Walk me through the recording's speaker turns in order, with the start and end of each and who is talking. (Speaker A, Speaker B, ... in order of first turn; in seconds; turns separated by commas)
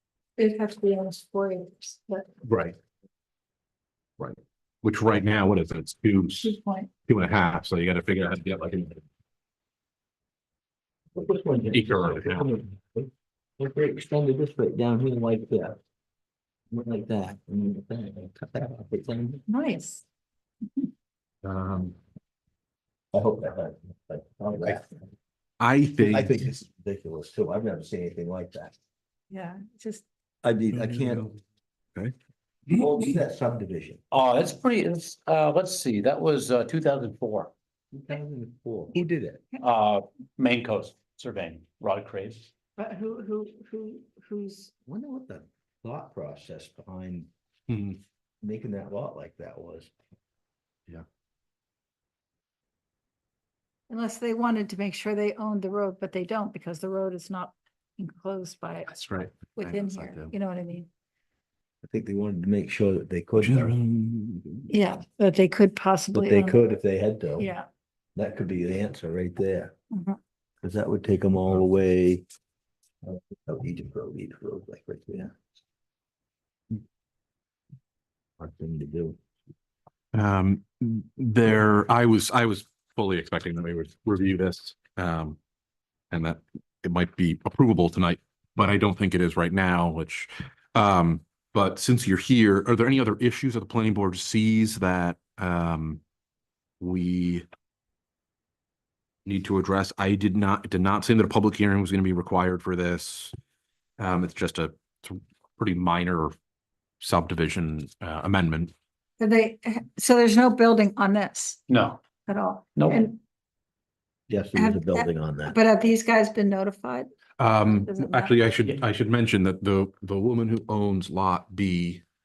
Speaker A: 0.4-2.3, Speaker B: 2.4-2.8, Speaker B: 4.2-6.6, Speaker A: 6.4-6.9, Speaker B: 7.1-9.0, Speaker C: 11.1-15.8, Speaker B: 11.7-12.5, Speaker C: 16.7-19.4, Speaker A: 19.5-20.0, Speaker B: 21.4-21.9, Speaker C: 23.1-24.9, Speaker B: 25.6-26.4, Speaker C: 26.0-28.8, Speaker A: 29.3-30.1, Speaker C: 30.4-31.3, Speaker B: 30.7-31.4, Speaker B: 32.7-33.1, Speaker C: 32.7-34.0, Speaker D: 34.1-37.5, Speaker C: 37.9-39.4, Speaker D: 39.6-42.5, Speaker A: 42.8-44.7, Speaker C: 44.9-47.3, Speaker B: 47.7-48.0, Speaker C: 48.4-49.9, Speaker A: 53.9-58.9, Speaker B: 58.9-60.3, Speaker A: 59.5-60.9, Speaker C: 61.8-63.8, Speaker B: 63.4-64.7, Speaker A: 64.7-66.6, Speaker C: 66.1-67.5, Speaker A: 67.4-67.7, Speaker C: 68.2-69.7, Speaker A: 69.9-70.2, Speaker C: 70.6-72.2, Speaker C: 73.0-75.3, Speaker C: 78.4-79.2, Speaker B: 80.1-85.4, Speaker B: 86.1-96.0, Speaker B: 96.8-97.5, Speaker B: 99.2-103.3, Speaker B: 104.0-106.3, Speaker B: 107.0-108.7, Speaker A: 109.2-111.6, Speaker D: 111.7-112.0, Speaker A: 112.3-113.2, Speaker D: 112.8-113.1, Speaker C: 114.3-115.6, Speaker A: 114.5-117.1, Speaker B: 117.4-122.0, Speaker A: 117.7-118.3